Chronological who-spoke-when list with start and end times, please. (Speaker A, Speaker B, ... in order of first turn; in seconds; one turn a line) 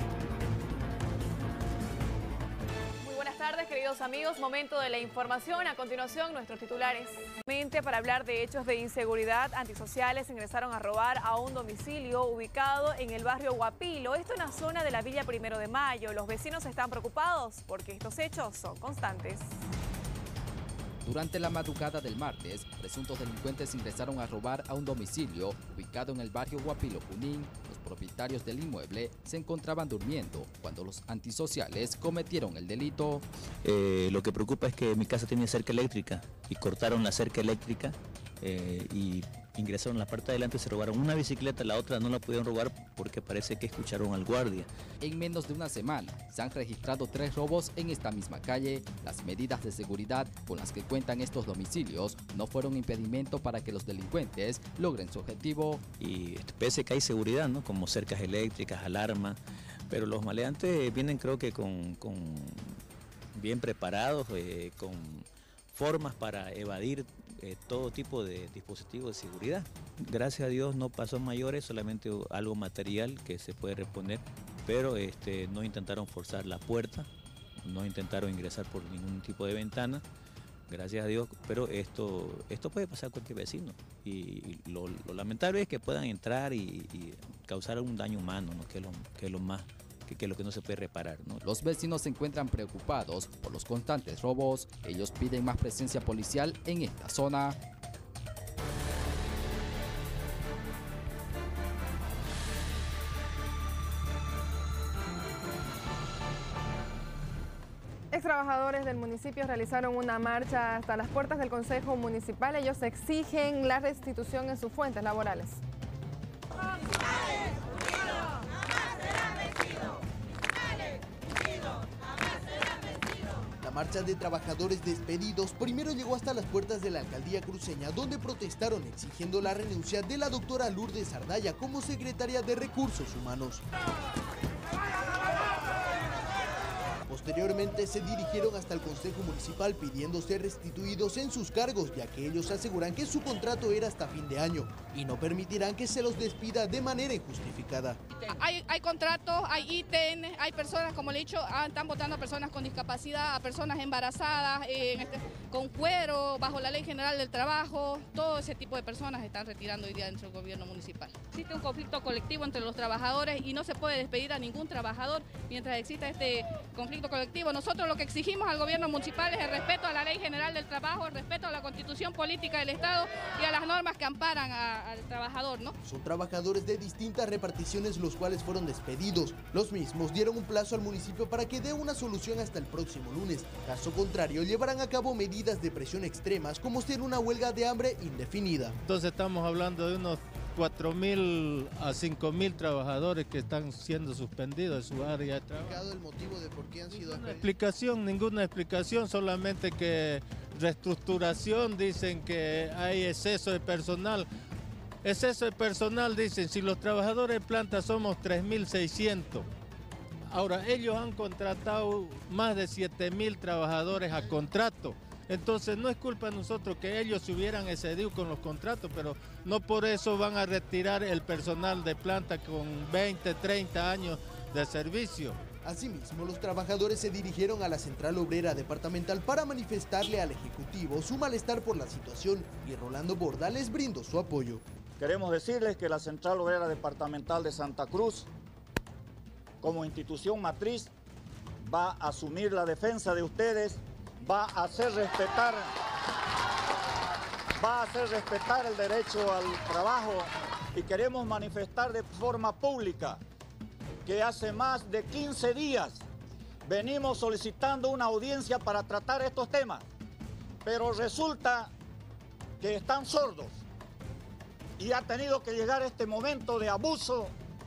Speaker A: 3.0-19.5
Speaker B: 21.0-33.2
Speaker C: 33.6-44.7
Speaker B: 45.0-55.8
Speaker C: 56.0-59.4
Speaker C: 59.9-62.8
Speaker C: 63.3-77.1
Speaker C: 77.6-80.0
Speaker C: 80.7-91.4
Speaker B: 91.4-97.6
Speaker D: 108.1-115.6
Speaker E: 123.6-133.6
Speaker E: 137.1-148.0
Speaker F: 148.2-175.7
Speaker E: 175.8-188.8
Speaker G: 188.8-195.8
Speaker E: 195.6-197.5
Speaker G: 196.9-204.3
Speaker G: 205.0-209.5
Speaker G: 210.2-225.4
Speaker E: 225.6-234.6
Speaker H: 235.0-238.3
Speaker H: 239.6-240.9
Speaker H: 241.6-245.7
Speaker H: 247.6-253.2
Speaker H: 254.0-256.0
Speaker H: 256.6-259.8
Speaker H: 260.6-261.7
Speaker H: 262.6-263.6
Speaker H: 264.8-267.3